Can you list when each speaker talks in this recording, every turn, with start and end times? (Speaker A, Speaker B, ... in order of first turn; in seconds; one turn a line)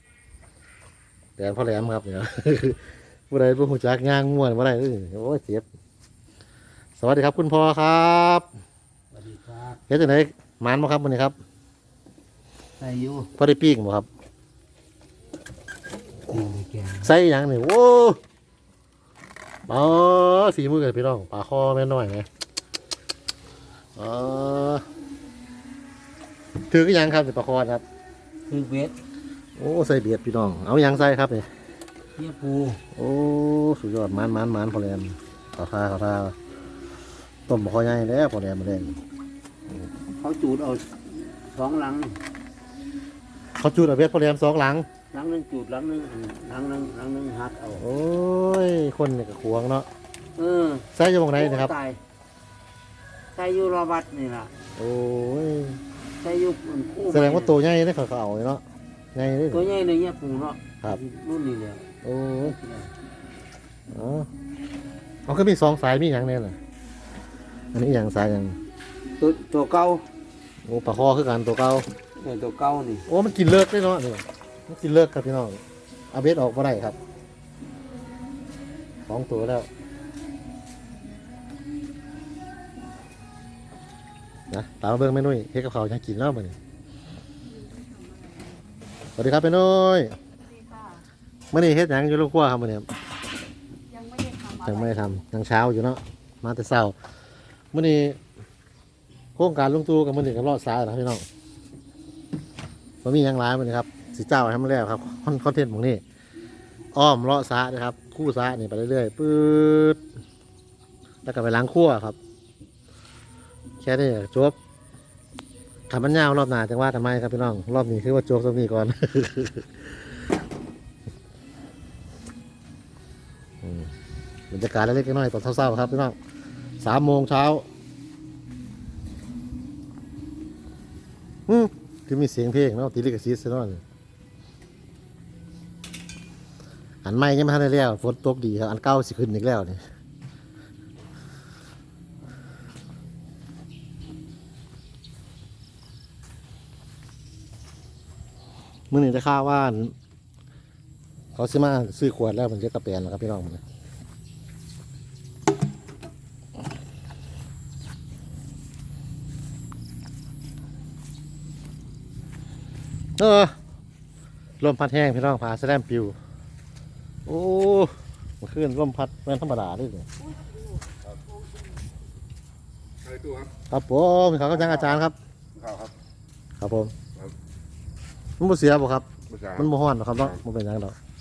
Speaker A: 1.4-5.6
Speaker A: 7.0-8.4
Speaker B: 9.1-9.8
Speaker A: 9.9-11.3
Speaker B: 12.8-13.3
Speaker A: 13.3-14.1
Speaker B: 16.3-17.1
Speaker A: 17.0-18.2
Speaker A: 19.7-22.2
Speaker A: 23.9-24.8
Speaker A: 26.7-27.8
Speaker B: 28.5-29.0
Speaker A: 29.6-31.5
Speaker B: 32.2-32.8
Speaker A: 32.9-36.3
Speaker A: 37.5-39.0
Speaker B: 40.2-42.2
Speaker A: 43.6-44.9
Speaker B: 45.1-47.9
Speaker A: 47.8-49.9
Speaker B: 50.4-52.0
Speaker A: 50.9-51.7
Speaker B: 53.3-54.5
Speaker A: 54.8-55.8
Speaker B: 56.2-57.6
Speaker A: 57.1-58.6
Speaker A: 59.1-59.7
Speaker B: 59.5-61.9
Speaker A: 62.0-62.6
Speaker B: 62.4-62.9
Speaker A: 63.9-64.3
Speaker A: 65.3-66.6
Speaker A: 67.7-68.6
Speaker B: 69.2-70.0
Speaker A: 70.6-71.8
Speaker B: 72.2-73.0
Speaker A: 73.1-77.0
Speaker A: 79.1-79.7
Speaker A: 84.5-86.5
Speaker C: 87.8-88.6
Speaker A: 89.2-90.2
Speaker C: 90.5-91.0
Speaker A: 91.5-92.8
Speaker C: 93.9-94.6
Speaker A: 94.5-96.9
Speaker A: 97.7-98.2
Speaker A: 99.3-101.2
Speaker A: 103.0-106.0
Speaker A: 106.9-110.0
Speaker A: 111.2-112.2
Speaker A: 113.8-114.5
Speaker A: 115.9-119.8
Speaker A: 123.6-123.9
Speaker A: 124.5-126.2
Speaker A: 126.8-127.6
Speaker A: 131.5-133.8
Speaker A: 137.0-139.8
Speaker A: 148.9-149.9
Speaker A: 151.3-153.6
Speaker A: 163.2-163.5
Speaker A: 164.6-166.2
Speaker A: 167.2-170.1
Speaker D: 173.0-173.5
Speaker A: 173.7-175.1
Speaker D: 174.5-175.0
Speaker D: 175.5-175.9
Speaker A: 176.6-176.9
Speaker A: 178.4-180.9
Speaker D: 179.3-180.4